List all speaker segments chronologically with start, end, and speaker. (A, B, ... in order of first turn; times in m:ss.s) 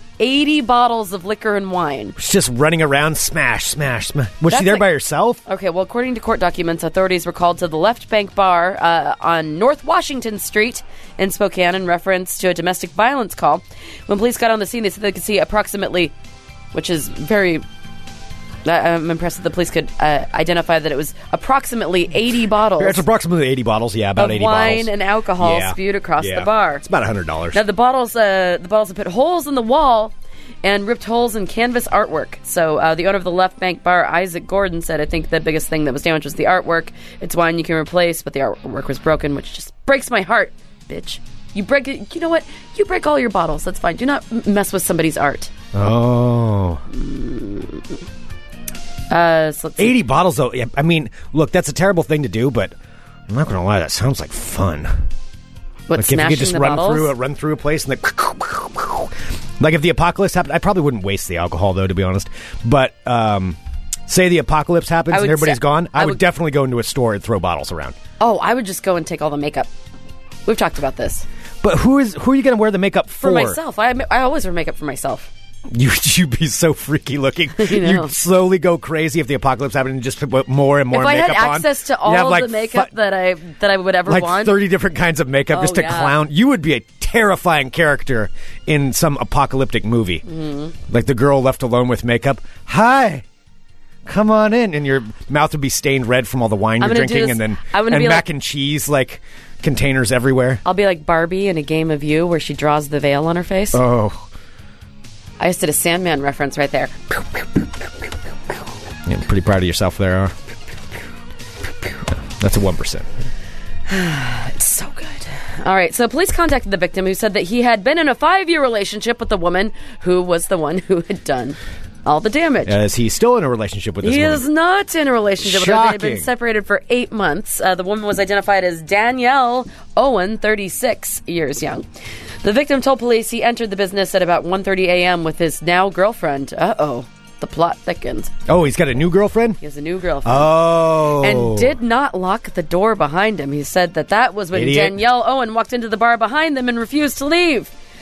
0:00.2-0:02.2 A
0:02.2-0:05.4 B
0:04.5-0:04.9 A
0:05.4-0:16.1 A
0:16.7-0:17.6 A
0:18.6-0:23.0 A
0:22.8-0:27.6 B
0:24.2-0:26.8 A
0:27.5-0:45.5 A
0:45.7-0:46.8 B
0:46.9-0:47.9 A
0:49.1-0:50.0 A
0:49.8-0:52.7 B
0:53.3-0:54.9 B
0:55.9-0:57.1 A
0:56.0-1:03.6 B
1:04.1-1:08.0 B
1:05.1-1:06.2 A
1:08.2-1:09.7 A
1:10.4-1:11.2 A
1:11.6-1:13.6 B
1:13.2-1:15.3 A
1:15.7-1:22.9 B
1:17.6-1:18.1 A
1:20.9-1:24.6 A
1:24.1-1:30.2 B
1:25.5-1:26.2 A
1:30.2-1:30.7 A
1:30.9-1:33.2 B
1:34.0-1:40.6 B
1:36.8-1:38.3 A
1:40.6-1:43.8 A
1:43.7-1:44.3 B
1:45.4-1:46.9 A
1:49.0-1:50.3 B
1:52.1-1:53.1 B
1:53.9-2:02.8 A
2:02.6-2:04.4 B
2:04.0-2:11.8 A
2:05.4-2:06.3 B
2:12.4-2:18.3 A
2:18.5-2:19.6 B
2:19.6-2:27.7 A
2:20.2-2:21.8 B
2:24.5-2:25.0 B